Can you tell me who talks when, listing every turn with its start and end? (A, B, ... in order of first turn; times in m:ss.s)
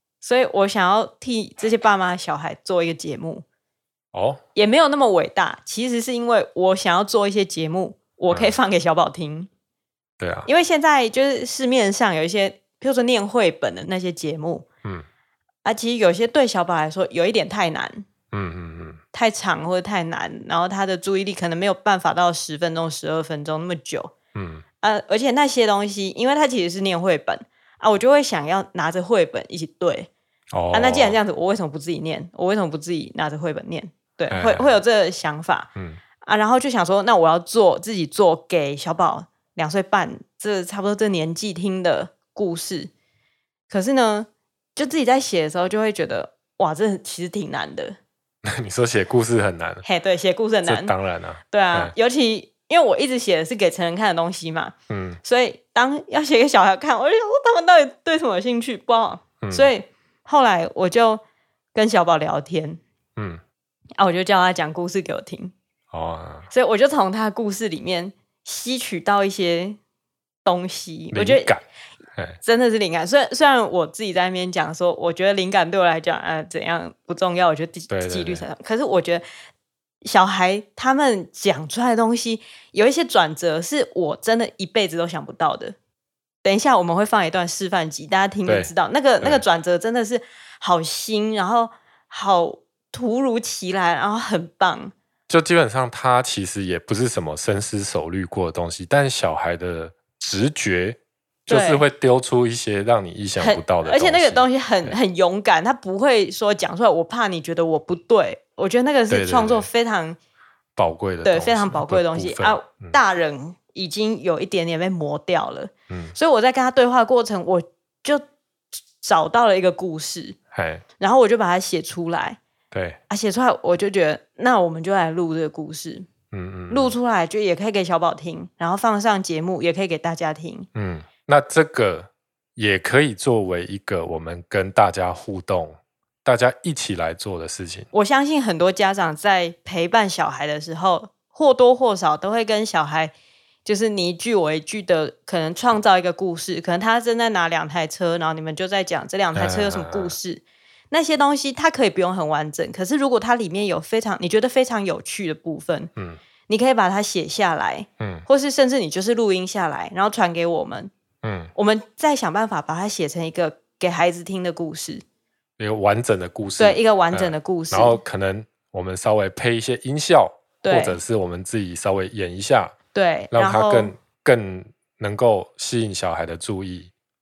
0:00.2-0:03.4 A
0:04.1-0:04.4 B
0:04.5-0:09.5 A
0:08.3-0:08.6 B
0:10.2-0:10.5 B
0:10.4-0:14.6 A
0:15.6-0:18.0 A
0:18.3-0:19.0 B
0:19.1-0:24.1 A
0:24.3-0:24.6 B
0:24.8-0:30.1 A
0:30.5-0:31.2 B
0:30.7-0:35.7 A
0:34.3-0:34.7 B
0:36.2-0:42.9 A
0:43.7-0:48.0 A
0:48.5-0:49.8 B
0:49.8-0:50.9 A
0:50.6-0:51.9 B
0:51.5-1:01.2 A
0:54.9-0:55.2 B
0:59.4-0:59.7 B
1:01.7-1:02.8 A
1:04.0-1:05.5 A
1:05.9-1:06.5 B
1:06.5-1:09.8 A
1:10.4-1:11.5 A
1:11.1-1:11.6 B
1:12.4-1:19.2 A
1:17.9-1:18.4 B
1:20.0-1:25.7 A
1:26.4-1:34.9 A
1:28.4-1:29.4 B
1:35.3-1:45.0 B
1:41.5-1:41.8 A
1:43.4-1:50.2 A
1:49.1-1:49.7 B
1:50.8-1:53.0 B
1:51.2-1:58.2 A
1:55.9-1:56.1 B
1:59.0-2:00.4 A
2:00.5-2:00.8 B
2:01.0-2:02.4 A
2:02.7-2:03.0 B
2:03.1-2:06.1 A
2:06.3-2:06.9 B
2:06.7-2:10.7 A
2:10.7-2:17.9 B
2:17.9-2:23.1 A
2:23.6-2:35.9 A
2:29.3-2:30.1 B
2:36.5-2:40.9 A
2:38.0-2:38.2 B
2:41.2-2:41.5 B
2:41.5-2:45.0 A
2:45.6-2:52.7 B
2:46.6-2:48.0 A
2:50.6-2:51.0 A
2:52.9-2:54.0 A
2:53.3-2:56.9 B